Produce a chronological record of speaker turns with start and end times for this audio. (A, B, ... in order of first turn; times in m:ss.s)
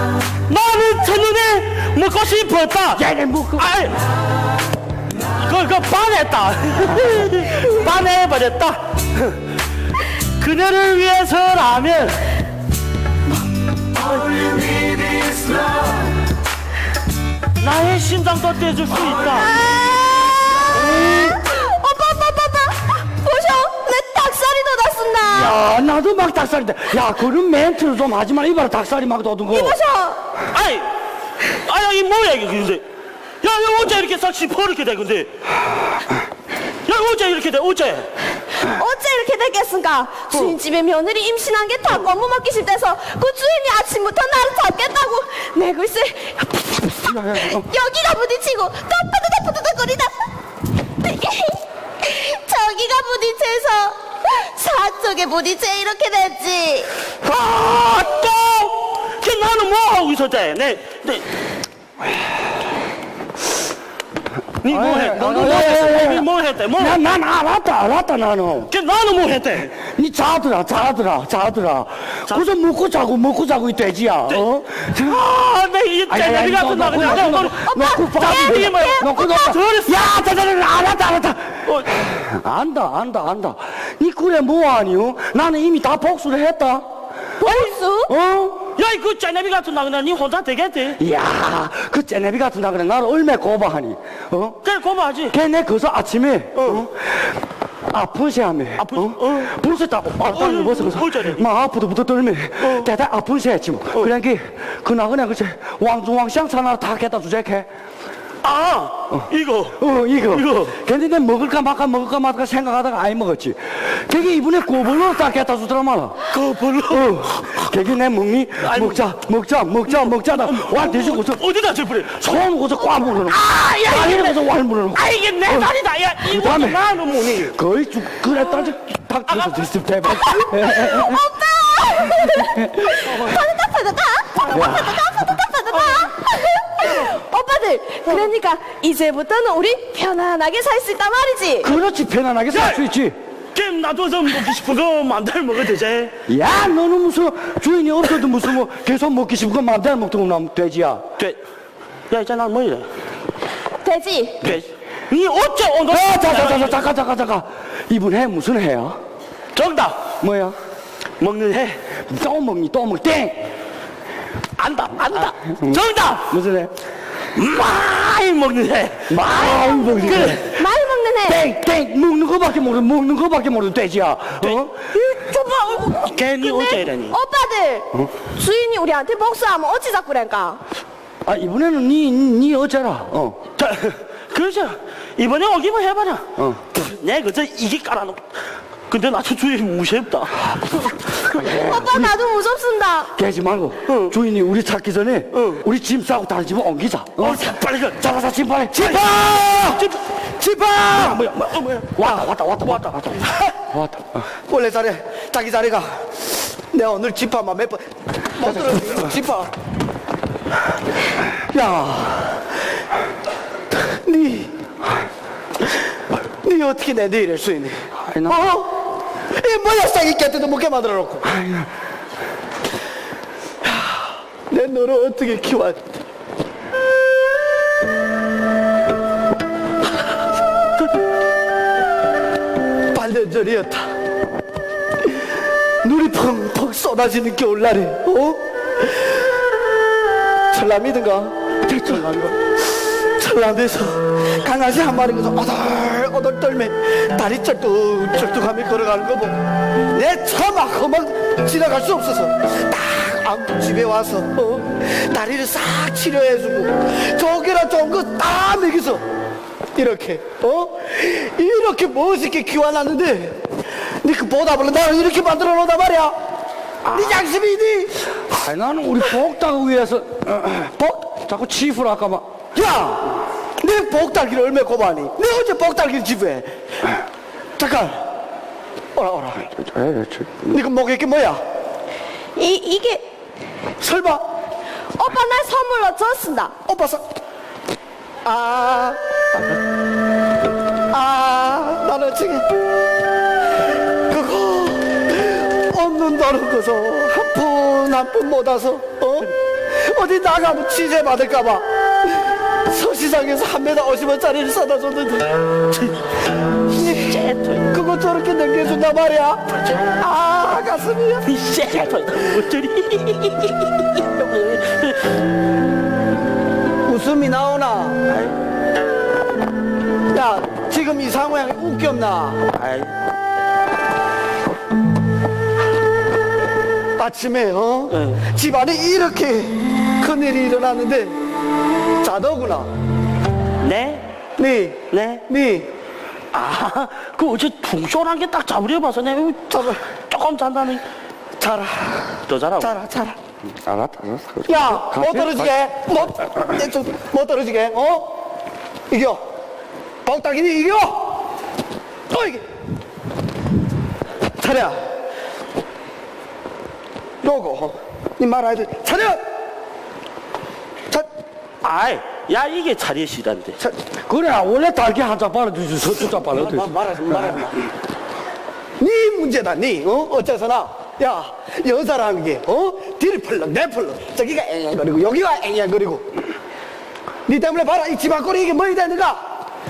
0:00.5-0:03.0 A
0:02.9-0:03.6 B
0:03.5-0:04.0 A
0:05.4-0:09.3 A
0:10.4-0:12.3 A
0:14.0-0:16.0 A
0:17.6-0:19.5 A
0:19.2-0:25.6 C
0:25.3-0:29.8 B
0:29.5-0:30.2 C
0:30.5-0:30.9 A
0:31.6-0:32.8 A
0:33.4-0:35.3 A
0:36.8-0:38.1 A
0:38.6-0:50.2 C
0:47.0-0:47.7 B
0:51.0-0:56.9 C
0:57.3-1:01.2 A
0:57.7-0:58.3 B
1:04.6-1:07.0 A
1:04.6-1:08.7 B
1:08.7-1:09.8 A
1:09.8-1:15.2 B
1:14.3-1:20.1 A
1:16.1-1:26.8 B
1:17.6-1:19.6 C
1:21.6-1:22.0 A
1:27.4-1:28.1 C
1:28.1-1:28.7 B
1:28.8-1:31.0 A
1:31.0-1:34.6 B
1:34.6-1:35.4 A
1:35.3-1:47.7 B
1:36.5-1:36.8 A
1:38.8-1:39.5 A
1:40.3-1:41.4 A
1:42.6-1:42.9 A
1:48.4-1:50.8 A
1:49.1-1:56.2 B
1:56.3-1:57.6 A
1:56.9-2:01.4 B
1:58.6-1:59.0 A
1:59.8-2:02.2 A
2:02.1-2:06.8 B
2:03.3-2:04.4 A
2:04.9-2:07.6 A
2:07.4-2:11.2 B
2:10.2-2:21.7 C
2:12.3-2:13.2 B
2:14.5-2:15.2 B
2:21.6-2:23.1 B
2:22.5-2:22.8 A
2:23.5-2:26.1 A
2:26.3-2:31.0 B
2:32.1-2:32.9 A
2:33.8-2:34.4 C
2:34.4-2:36.8 A
2:35.9-2:39.0 B
2:39.5-2:40.0 A
2:40.2-2:40.6 B
2:41.2-2:41.8 A
2:42.0-2:43.5 B
2:44.6-2:46.2 A
2:45.1-2:46.7 B
2:47.3-2:49.1 A
2:49.1-2:50.6 B
2:49.3-2:51.4 C
2:50.0-2:50.4 A
2:51.2-2:54.8 B
2:55.0-3:00.6 C
2:56.1-2:57.2 A
3:01.2-3:03.4 B
3:03.6-3:08.4 A
3:06.4-3:06.7 B
3:08.9-3:10.5 A
3:11.2-3:12.2 B
3:11.4-3:13.1 C
3:13.1-3:24.2 B
3:13.9-3:14.1 A
3:15.3-3:15.6 A
3:17.2-3:18.0 A
3:18.7-3:20.0 A
3:21.1-3:22.1 A
3:22.6-3:23.4 A
3:24.5-3:29.5 D
3:28.4-3:28.9 B
3:31.4-3:32.4 B
3:33.7-3:34.5 D
3:36.4-3:38.8 D
3:38.0-3:38.4 B
3:39.3-3:41.3 D
3:41.2-3:41.7 B
3:43.6-3:45.8 D
3:52.9-3:53.9 D
3:55.8-3:59.2 D
4:00.5-4:01.3 D
4:01.7-4:02.4 B
4:03.0-4:09.4 D
4:09.9-4:19.0 D
4:19.7-4:23.4 D
4:24.0-4:26.2 D
4:26.8-4:27.2 B
4:26.9-4:27.9 D
4:28.2-4:32.2 B
4:32.6-4:36.5 D
4:37.6-4:38.0 D
4:38.9-4:39.4 D
4:39.4-4:40.6 B
4:40.5-4:41.4 D
4:42.4-4:43.0 C
4:43.8-4:44.2 D
4:45.0-4:46.5 C
4:46.6-4:47.0 D
4:48.2-4:49.0 D
4:50.9-4:52.5 D
4:54.1-5:01.6 D
5:02.7-5:05.3 D
5:05.7-5:06.0 A
5:06.7-5:07.7 A
5:07.7-5:11.3 D
5:11.2-5:15.1 A
5:16.8-5:18.0 D
5:18.1-5:18.4 A
5:20.1-5:22.4 D
5:22.5-5:22.9 A
5:27.0-5:31.2 D
5:27.9-5:28.2 A
5:32.0-5:32.7 D
5:33.6-5:34.0 A
5:34.4-5:35.7 D
5:34.9-5:35.2 A
5:36.3-5:40.8 A
5:39.5-5:39.8 D
5:41.4-5:43.2 D
5:42.3-5:42.7 A
5:43.6-5:45.5 B
5:44.5-5:48.1 D
5:48.9-5:49.2 D
5:50.0-5:51.1 D
5:52.1-5:52.4 D
5:54.4-5:54.8 D
5:57.2-5:59.2 D
6:01.6-6:03.6 A
6:04.1-6:07.5 B
6:06.2-6:07.6 D
6:08.8-6:16.0 D
6:17.2-6:19.2 D